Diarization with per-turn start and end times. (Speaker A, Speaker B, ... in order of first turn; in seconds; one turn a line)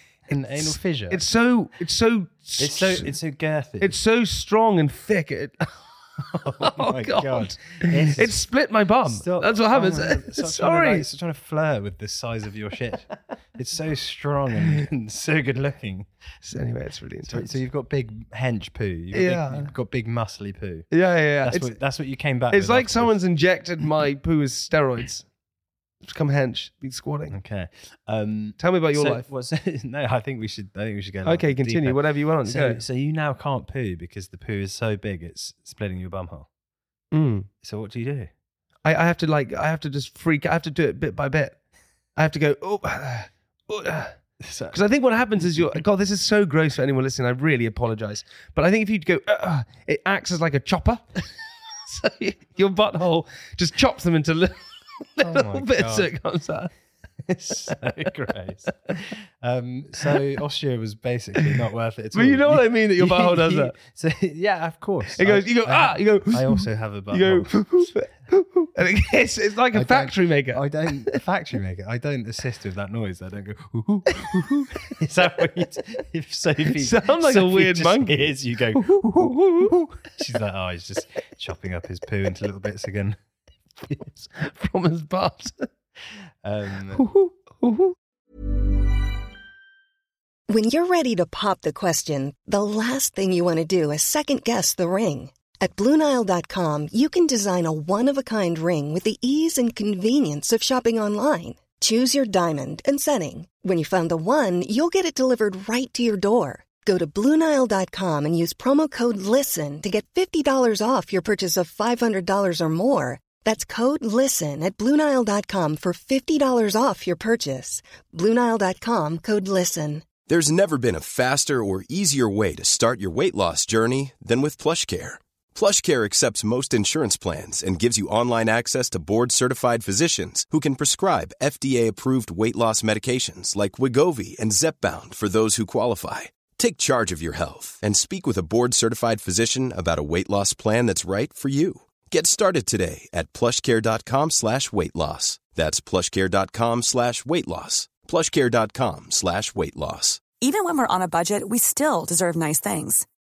Speaker A: 0.3-1.2
Speaker B: 0.6-3.1
Speaker A: 2.6-4.0
Speaker B: 3.8-11.1
Speaker A: 6.3-8.4
Speaker A: 9.1-16.1
Speaker B: 16.4-17.6
Speaker A: 17.3-20.9
Speaker B: 19.1-19.7
Speaker B: 20.9-21.8
Speaker A: 21.4-23.2
Speaker B: 22.5-25.3
Speaker B: 26.0-27.4
Speaker A: 27.3-36.5
Speaker B: 28.6-29.2
Speaker B: 31.2-32.8
Speaker B: 37.1-37.5
Speaker A: 37.6-38.3
Speaker B: 38.9-41.6
Speaker B: 42.2-44.2
Speaker A: 44.4-44.8
Speaker B: 44.7-51.3
Speaker B: 51.9-56.7
Speaker A: 55.2-56.1
Speaker A: 57.2-67.9
Speaker B: 62.1-63.7
Speaker B: 65.2-71.2
Speaker A: 69.7-83.2
Speaker B: 74.3-74.7
Speaker B: 76.8-79.7
Speaker B: 84.1-85.7
Speaker A: 86.4-87.0
Speaker B: 86.9-88.0
Speaker C: 90.5-120.1
Speaker D: 120.3-150.2
Speaker E: 150.4-153.1